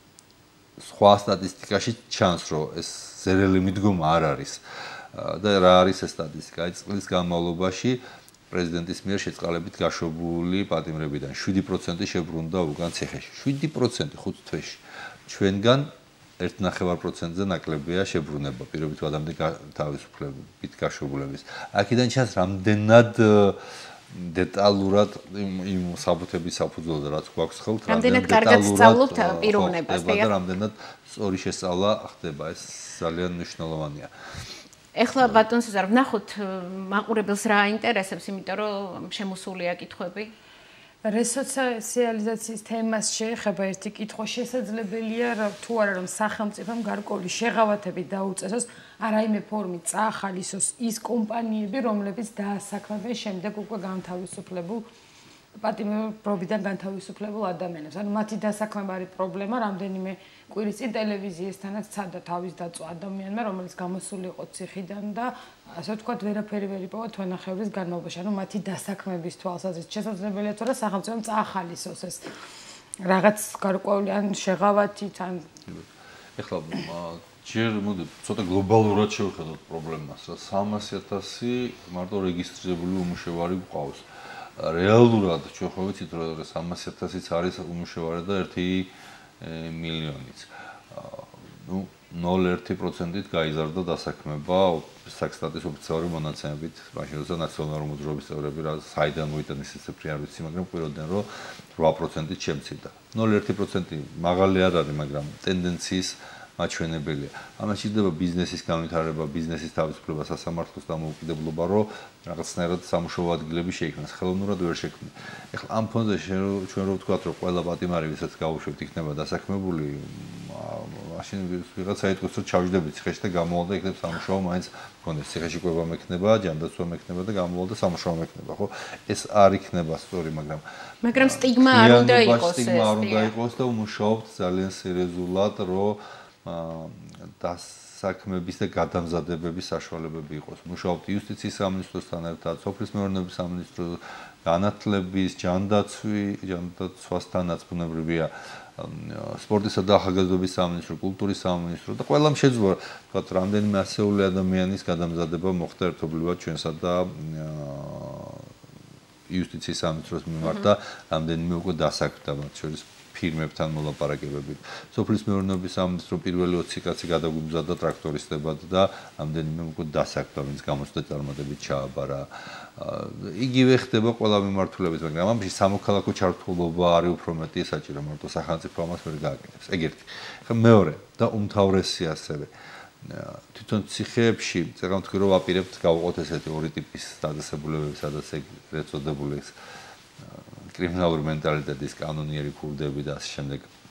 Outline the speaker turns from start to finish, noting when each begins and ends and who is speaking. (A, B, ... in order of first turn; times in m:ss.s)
0:00.8-0:34.1 A
0:27.9-0:30.3 B
0:35.0-0:40.3 B
0:35.2-0:35.4 A
0:41.0-0:54.8 C
0:55.6-1:12.3 C
1:13.0-1:15.5 C
1:15.7-2:38.5 A
2:11.0-2:13.3 B
2:39.3-3:09.6 A
2:40.4-2:40.7 B
3:10.2-3:13.7 A